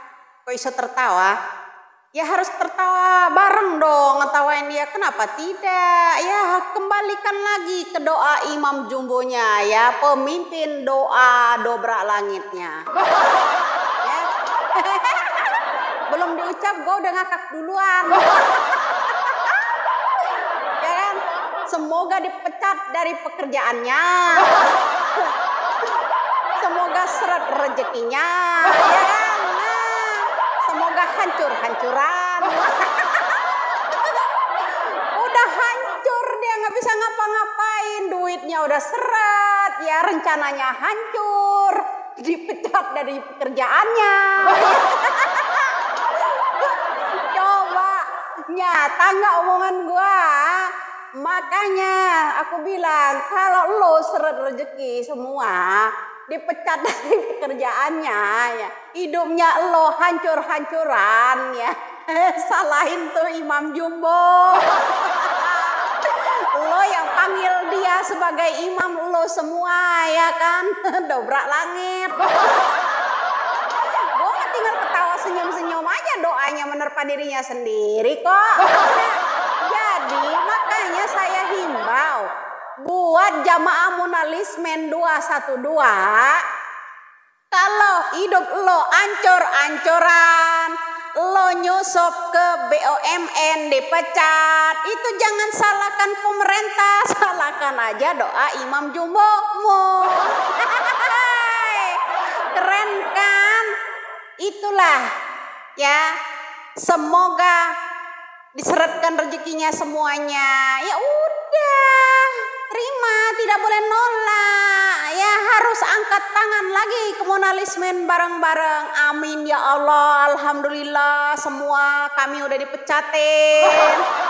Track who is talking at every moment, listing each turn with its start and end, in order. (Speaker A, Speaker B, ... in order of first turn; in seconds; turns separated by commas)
Speaker A: 0.5-1.3, Speaker A: 2.1-12.8, Speaker A: 14.8-19.6, Speaker A: 20.8-25.3, Speaker A: 26.6-72.7, Speaker A: 73.8-82.3, Speaker A: 82.8-86.4, Speaker A: 87.5-102.0, Speaker A: 102.5-103.7, Speaker A: 104.4-105.0, Speaker A: 105.8-106.1, Speaker A: 106.8-107.6, Speaker A: 108.5-124.0